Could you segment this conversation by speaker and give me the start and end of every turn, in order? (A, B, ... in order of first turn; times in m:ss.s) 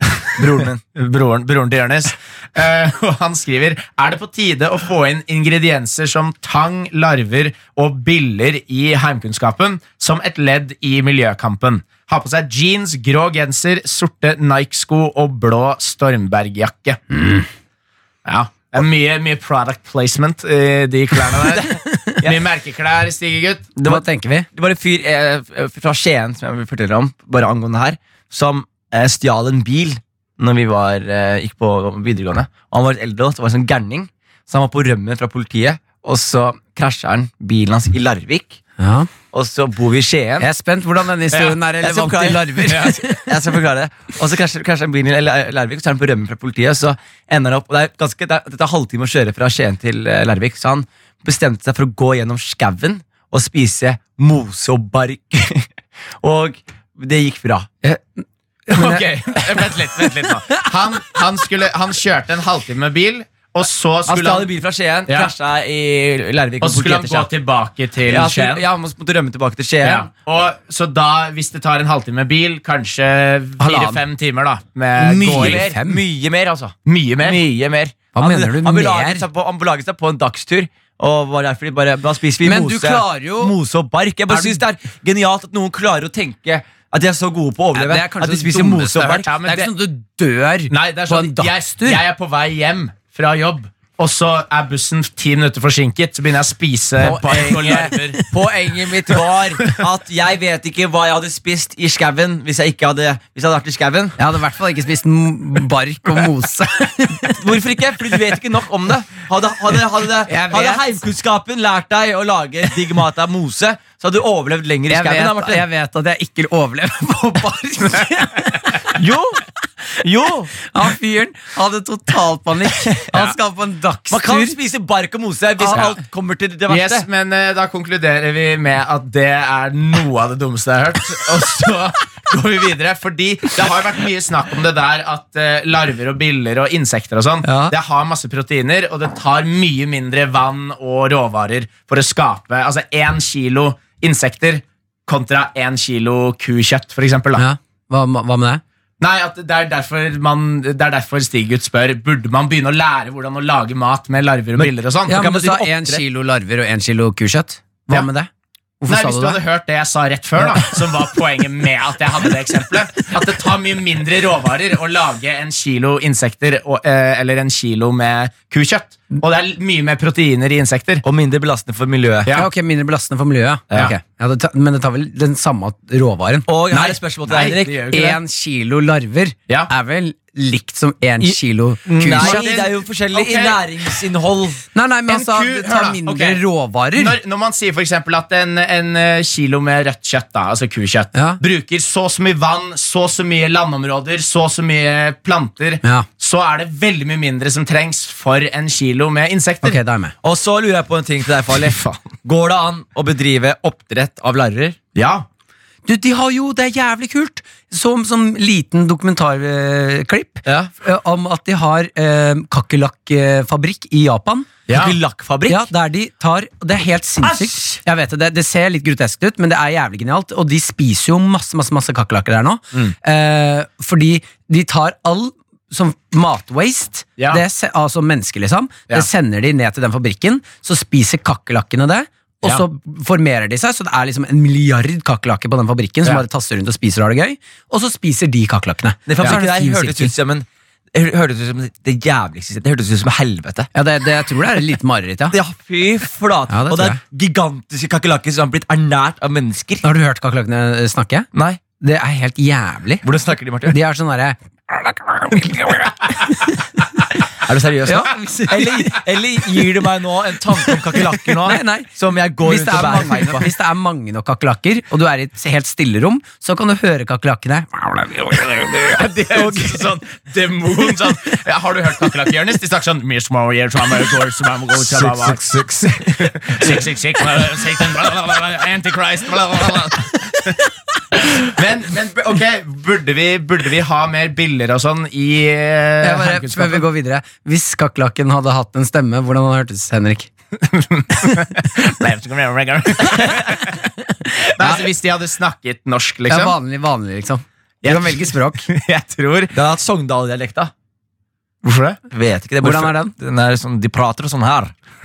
0:00.2-0:00.8 A
0:00.4-0:17.0 B
0:18.2-0:21.7 B
0:21.8-0:22.2 C
0:22.2-0:23.7 B
0:23.8-0:38.6 A
0:23.8-0:24.5 C
0:38.8-0:39.1 C
0:39.3-0:40.5 A
0:40.4-0:43.2 C
0:41.3-0:55.7 A
0:42.7-0:43.0 B
0:56.2-0:57.8 A
0:58.7-0:59.0 C
0:58.7-1:04.5 B
1:04.1-1:07.3 A
1:05.1-1:05.3 B
1:06.6-1:08.6 B
1:08.1-1:10.1 A
1:09.8-1:15.6 B
1:13.6-1:14.0 C
1:15.1-1:16.0 C
1:15.2-1:29.3 A
1:16.8-1:17.4 B
1:18.1-1:19.2 C
1:22.4-1:23.5 C
1:24.3-1:24.6 C
1:27.7-1:32.0 C
1:29.0-1:29.7 B
1:30.7-1:38.2 B
1:37.0-1:44.2 A
1:37.4-1:38.2 C
1:44.2-1:47.4 C
1:47.3-1:55.6 A
1:50.3-1:50.8 C
1:54.9-1:58.8 C
1:58.9-1:59.4 A
2:00.0-2:00.6 A
2:00.7-2:04.6 C
2:02.9-2:03.3 A
2:04.1-2:07.0 A
2:05.6-2:06.0 C
2:06.7-2:27.4 B
2:17.4-2:17.8 C
2:27.4-2:28.6 C
2:29.0-2:35.2 B
2:34.6-2:36.0 A
2:35.1-2:38.3 C
2:38.8-2:39.4 C
2:38.9-2:51.0 B
2:51.0-2:52.3 A
2:52.3-2:56.5 C
2:56.5-2:58.0 A
2:56.7-2:58.2 B
2:57.9-3:02.4 C
3:01.2-3:04.6 A
3:02.0-3:03.9 B
3:04.7-3:07.2 C
3:05.1-3:06.4 B
3:06.9-3:19.8 B
3:11.1-3:11.4 C
3:19.6-3:20.1 C
3:20.2-3:24.8 A
3:21.6-3:22.0 B
3:24.9-3:25.2 B
3:25.8-3:34.5 C
3:30.4-3:30.7 A
3:34.7-3:35.0 B
3:34.7-3:35.6 A
3:35.5-4:00.1 C
3:59.1-4:03.7 A
4:03.7-4:05.4 C
4:05.3-4:09.8 A
4:06.5-4:07.0 C
4:09.8-4:11.3 C
4:11.3-4:11.6 A
4:11.8-4:13.0 C
4:13.0-4:13.8 A
4:13.7-4:16.5 C
4:17.4-4:23.5 A
4:17.9-4:19.0 C
4:21.4-4:29.0 C
4:28.9-4:35.4 B
4:29.3-4:29.8 A
4:34.8-4:36.7 A
4:36.2-4:40.6 B
4:41.3-4:46.8 B
4:46.0-4:50.3 C
4:50.6-4:53.6 B
4:53.2-4:53.4 A
4:54.0-4:54.8 C
4:54.5-4:56.6 B
4:56.3-4:58.6 C
4:57.8-4:59.5 B
4:59.5-5:00.7 A
5:01.6-5:02.0 B
5:02.1-5:04.7 A
5:02.6-5:03.1 C